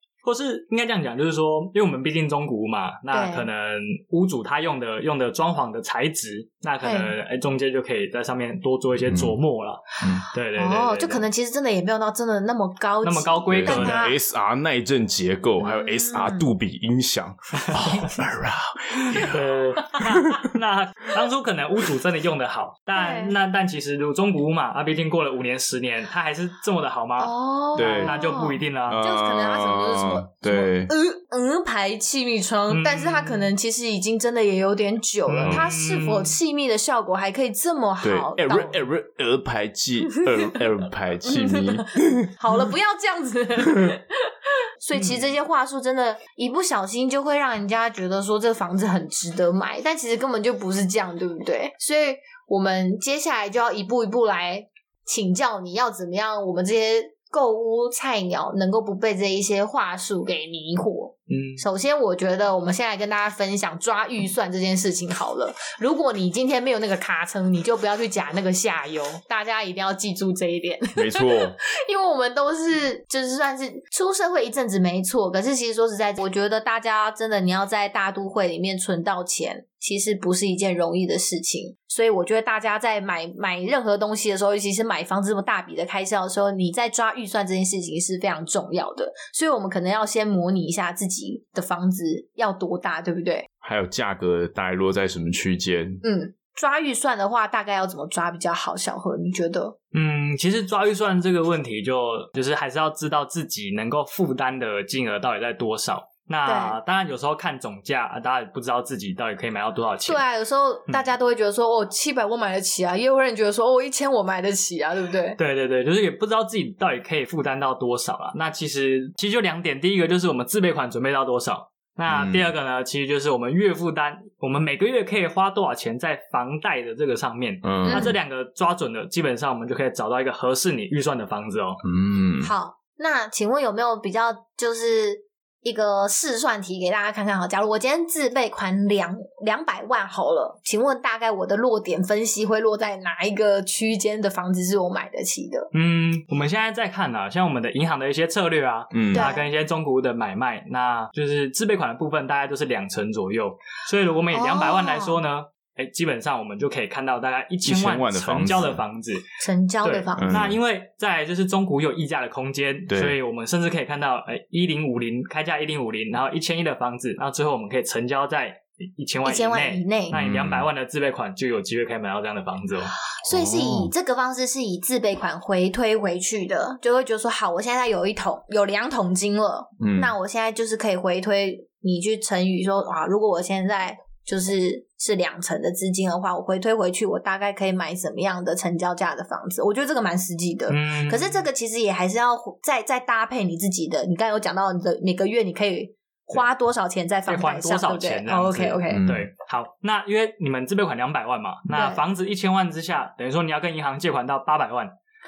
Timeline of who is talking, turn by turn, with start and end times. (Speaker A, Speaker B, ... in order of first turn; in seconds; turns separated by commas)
Speaker A: 0.2-11.2, Speaker B: 3.1-3.5, Speaker B: 6.8-7.1, Speaker C: 9.1-9.4, Speaker C: 10.0-10.3, Speaker B: 10.6-14.2, Speaker A: 13.0-14.1, Speaker C: 13.5-20.5, Speaker B: 15.6-16.5, Speaker A: 17.6-18.1, Speaker A: 19.2-29.0, Speaker B: 22.9-23.4, Speaker B: 27.2-38.8, Speaker C: 27.8-28.2, Speaker C: 28.9-30.9, Speaker A: 32.7-33.5, Speaker A: 35.3-36.4, Speaker C: 35.4-35.7, Speaker C: 38.0-42.3, Speaker B: 40.1-40.6, Speaker B: 41.2-93.5, Speaker A: 44.9-45.3, Speaker A: 61.3-61.6, Speaker C: 71.0-71.6, Speaker C: 93.6-96.0, Speaker B: 96.0-99.8, Speaker A: 99.9-110.2, Speaker B: 106.5-106.8, Speaker B: 110.1-115.4, Speaker A: 115.4-131.8, Speaker C: 122.1-122.5, Speaker C: 127.6-128.1, Speaker B: 127.9-128.2, Speaker C: 131.8-132.5, Speaker B: 132.4-145.7, Speaker A: 145.7-159.2, Speaker C: 148.9-149.3, Speaker B: 149.1-149.5, Speaker B: 154.3-155.2, Speaker C: 157.7-158.8, Speaker B: 159.4-160.5, Speaker A: 159.8-172.9, Speaker C: 160.2-160.6, Speaker C: 162.9-163.2, Speaker B: 169.2-170.2, Speaker C: 170.1-170.7, Speaker B: 173.2-199.1, Speaker C: 173.3-173.9, Speaker C: 179.8-180.2, Speaker A: 190.7-191.5, Speaker A: 197.3-204.9, Speaker C: 198.9-199.3, Speaker B: 201.7-202.0